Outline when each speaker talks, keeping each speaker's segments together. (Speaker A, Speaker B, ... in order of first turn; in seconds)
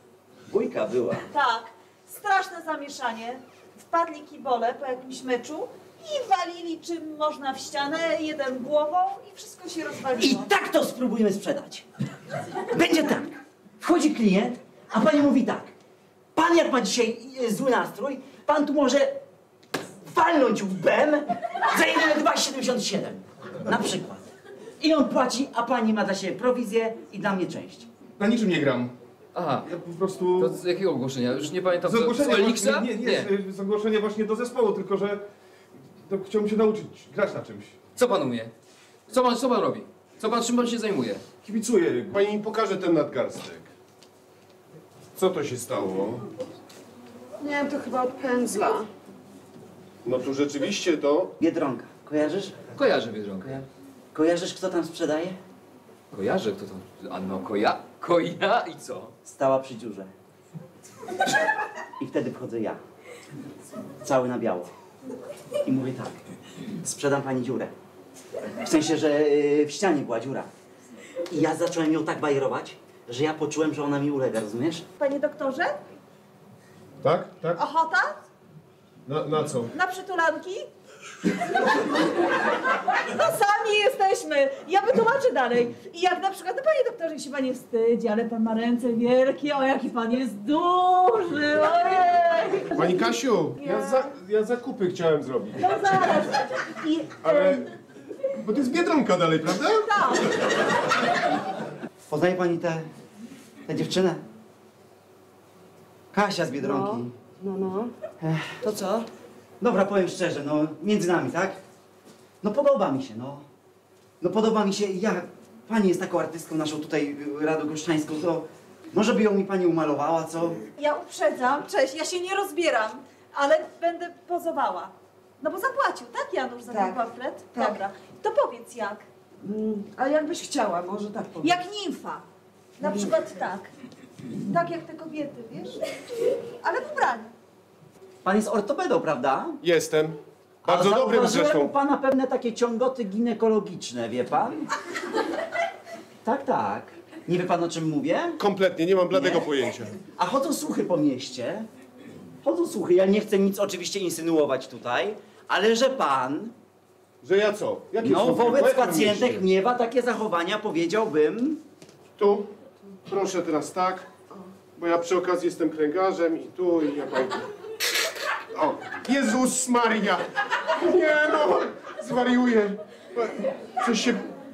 Speaker A: 0.5-1.2, 10.2-11.8, 12.7-15.7, 16.4-19.2, 20.0-24.2, 24.8-27.9, 51.4-52.6, 54.1-55.4, 59.2-60.1, 62.0-62.8, 64.0-64.7, 65.7-66.2, 66.8-67.7, 68.6-70.5, 71.3-74.8, 102.1-102.8, 103.7-104.2, 106.1-107.2, 108.2-108.9, 109.6-111.6, 112.4-113.5, 114.2-120.6, 138.2-139.6, 140.7-144.7, 146.2-148.4, 149.1-149.5, 150.2-151.7, 152.4-156.5, 158.0-161.6
Speaker B: 1.3-10.5, 75.0-75.8, 77.6-78.2, 79.7-80.7, 83.0-92.8, 93.6-94.1, 95.6-97.6, 99.8-100.3, 120.8-129.0, 131.4-132.2, 132.8-133.7, 134.5-135.8, 136.4-137.3
Speaker C: 28.2-28.9, 29.6-30.6, 31.9-35.2, 36.1-37.8, 41.4-42.2
Speaker D: 29.4-29.7, 30.4-33.3, 38.0-38.5, 39.1-41.2, 52.8-53.7, 56.1-59.1
Speaker E: 42.1-43.7, 45.2-46.2, 50.0-51.3, 77.0-77.6, 79.1-79.7, 92.7-95.6, 97.2-97.6, 98.3-99.9, 139.6-141.7, 148.4-150.0, 157.2-159.5, 162.2-162.5, 163.1-164.1, 164.8-167.4, 168.5-170.2, 170.8-174.2
Speaker F: 47.4-48.9, 106.6-108.1, 108.6-109.0, 126.7-127.0, 129.4-131.6